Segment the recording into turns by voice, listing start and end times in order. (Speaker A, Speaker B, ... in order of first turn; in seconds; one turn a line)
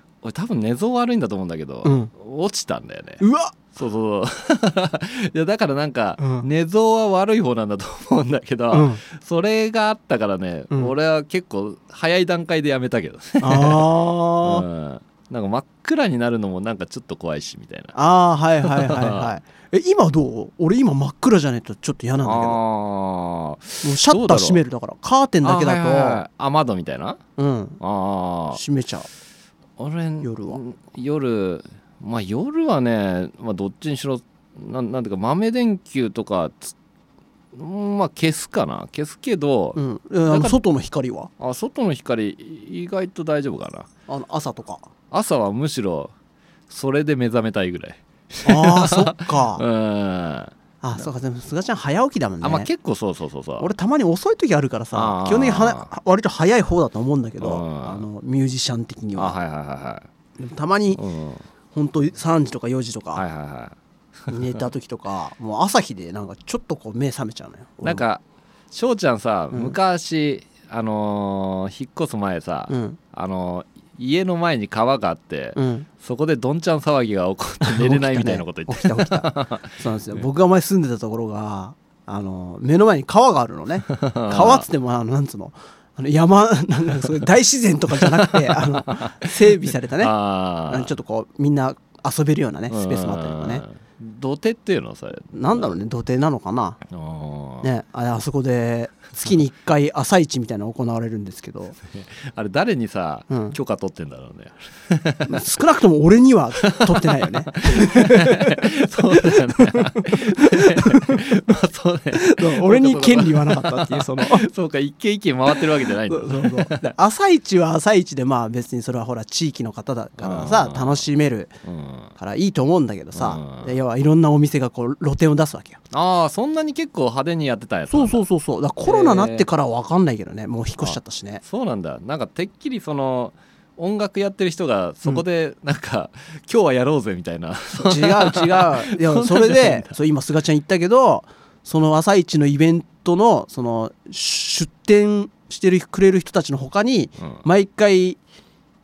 Speaker A: 0.2-17.9
Speaker B: 1.8-2.1
Speaker B: 3.2-3.6
Speaker B: 6.2-6.5
Speaker B: 8.7-9.0
Speaker B: 13.4-14.7
Speaker B: 17.9-22.6
Speaker A: 18.6-19.3
Speaker A: 22.2-24.6
Speaker B: 23.8-26.2
Speaker A: 25.4-27.2
Speaker B: 27.4-27.8
Speaker A: 27.8-28.6
Speaker B: 28.5-29.1
Speaker A: 29.8-36.7
Speaker B: 30.2-30.6
Speaker A: 37.5-40.6
Speaker B: 39.8-41.3
Speaker A: 41.4-43.9
Speaker B: 44.1-44.9
Speaker A: 45.1-46.1
Speaker A: 46.7-51.0
Speaker B: 48.5-49.6
Speaker B: 50.8-52.7
Speaker A: 52.4-53.7
Speaker B: 53.6-59.4
Speaker A: 54.9-55.9
Speaker A: 57.4-58.0
Speaker A: 59.2-60.1
Speaker B: 60.4-61.0
Speaker A: 61.0-61.4
Speaker B: 61.7-63.2
Speaker A: 63.1-63.8
Speaker B: 64.3-68.0
Speaker A: 67.8-80.2
Speaker B: 69.5-69.8
Speaker B: 72.7-73.0
Speaker B: 75.5-75.9
Speaker B: 77.6-90.1
Speaker A: 84.0-84.7
Speaker A: 87.9-89.4
Speaker A: 90.0-91.0
Speaker B: 90.7-93.6
Speaker A: 92.7-95.8
Speaker B: 95.3-96.8
Speaker A: 96.9-97.7
Speaker B: 97.6-101.8
Speaker A: 101.9-105.4
Speaker B: 103.3-103.6
Speaker B: 105.3-111.2
Speaker A: 106.6-117.0
Speaker B: 112.1-114.5
Speaker B: 115.6-121.5
Speaker A: 120.2-121.0
Speaker A: 121.6-122.1
Speaker B: 122.2-125.8
Speaker A: 123.1-123.7
Speaker A: 125.9-128.2
Speaker B: 127.9-131.4
Speaker A: 128.8-129.5
Speaker A: 130.8-139.9
Speaker B: 137.7-148.2